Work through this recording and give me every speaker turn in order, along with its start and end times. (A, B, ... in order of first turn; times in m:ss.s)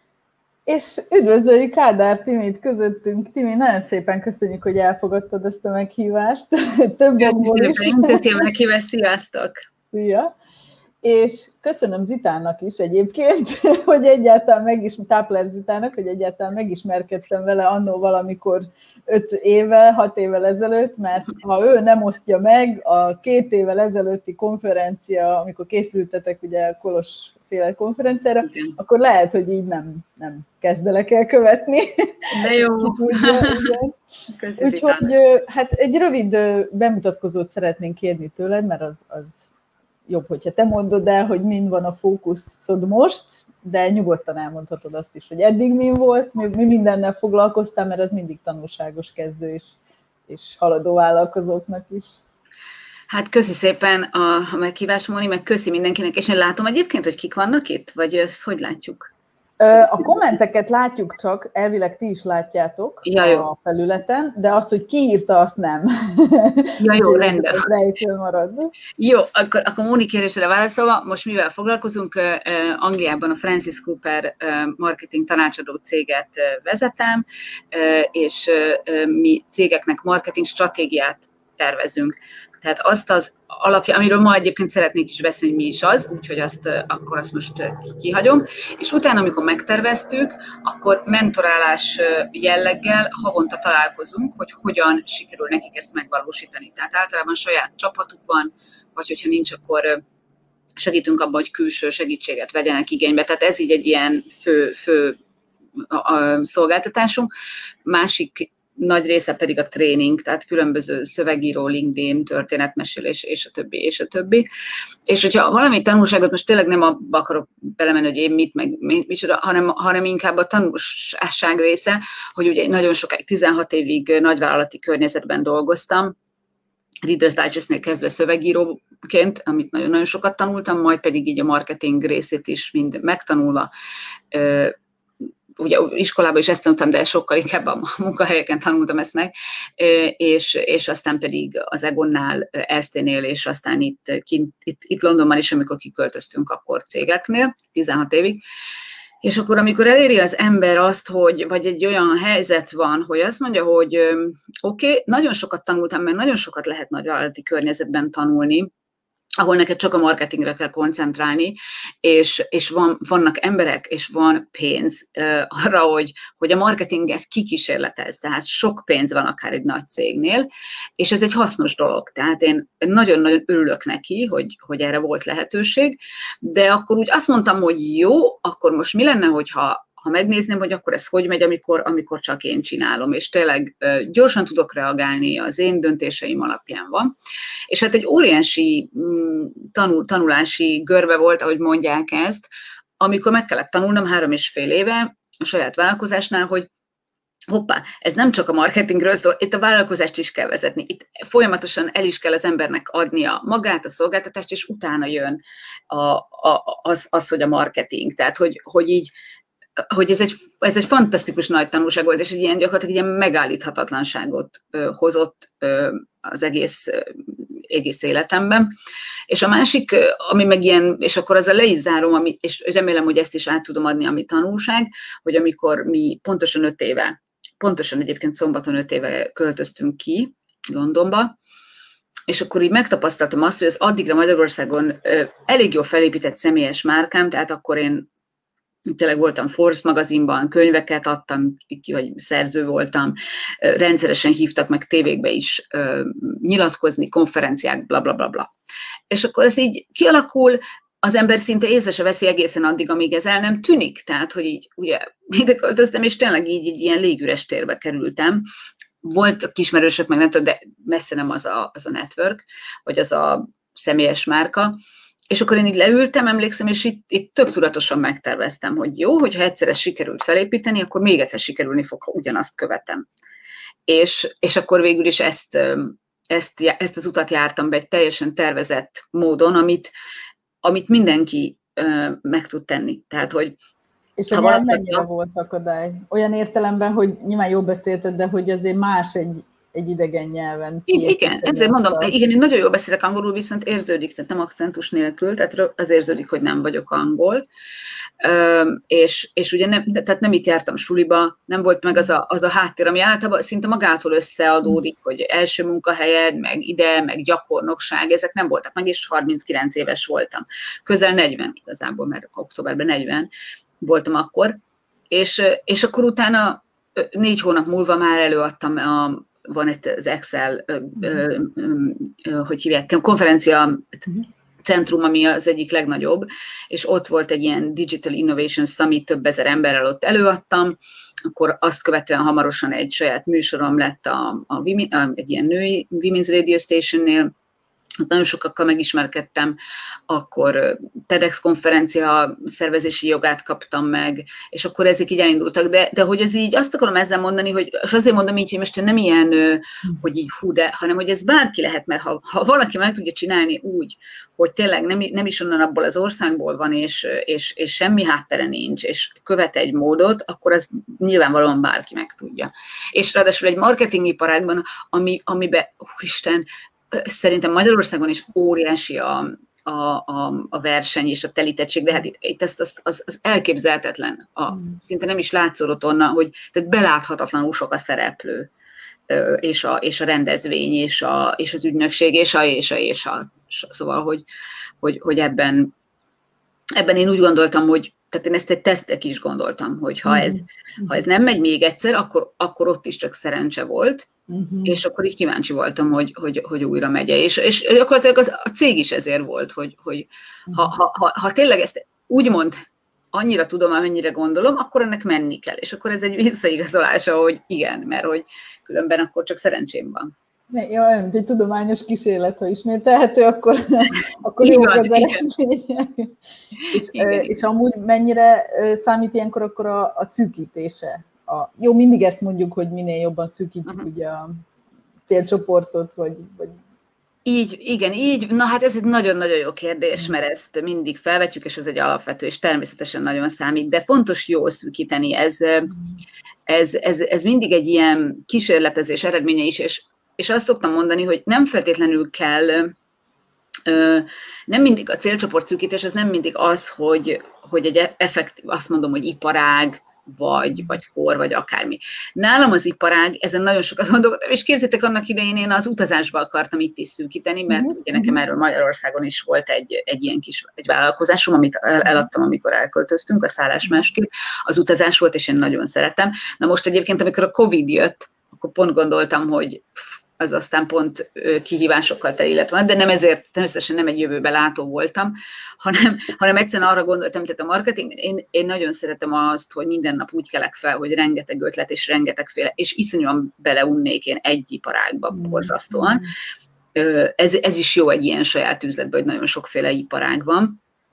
0:00.7-0:08.4 A
0:07.2-0:09.6 B
0:09.9-0:10.3 A
0:11.0-0:34.0 A
0:28.5-0:28.8 B
0:32.3-0:33.7 B
0:34.4-0:35.1 B
0:34.6-0:39.4 A
0:40.1-0:49.8 A
0:50.3-0:52.2 A
0:53.1-0:59.1 B
0:59.6-1:08.7 A
0:59.9-1:00.1 B
1:03.0-1:03.4 B
1:06.8-1:07.7 B
1:09.0-1:40.0 B
1:40.8-1:45.2 B
1:45.8-1:47.3 B
1:47.9-1:54.5 B
1:55.1-2:06.1 B
2:07.0-2:13.7 B
2:14.3-2:14.7 B
2:15.6-2:28.4 B
2:29.2-2:38.7 B
2:39.4-3:07.1 B
3:07.7-3:12.5 B
3:13.0-3:16.7 B
3:17.5-3:29.1 B
3:29.8-3:38.7 B
3:39.3-3:51.3 B
3:52.3-3:58.1 B
3:58.9-4:08.5 B
4:09.1-4:18.5 B
4:19.0-4:24.8 B
4:25.3-4:33.0 B
4:33.9-4:39.9 B
4:40.6-4:43.6 B
4:44.2-4:52.1 A
4:44.3-4:45.0 B
4:50.9-4:57.4 B
4:58.2-5:13.3 B
5:13.8-5:14.6 B
5:15.1-5:24.0 B
5:24.6-5:30.8 B
5:31.3-5:37.3 B
5:38.0-5:39.6 B
5:40.1-6:18.5 B
6:14.5-6:14.8 A
6:19.1-6:24.2 B
6:24.8-6:25.7 B
6:26.8-6:34.1 B
6:30.1-6:31.0 A
6:34.3-6:34.8 A
6:34.7-6:42.6 B
6:43.1-6:50.1 B
6:50.5-6:56.1 A
6:54.4-6:55.2 B
6:56.7-7:04.4 A
6:56.9-6:57.3 B
7:05.1-7:06.6 A
7:07.2-7:15.7 B
7:16.5-7:22.7 B
7:23.7-8:06.0 B
7:37.5-7:38.2 A
8:05.1-8:06.1 A
8:06.8-8:10.6 B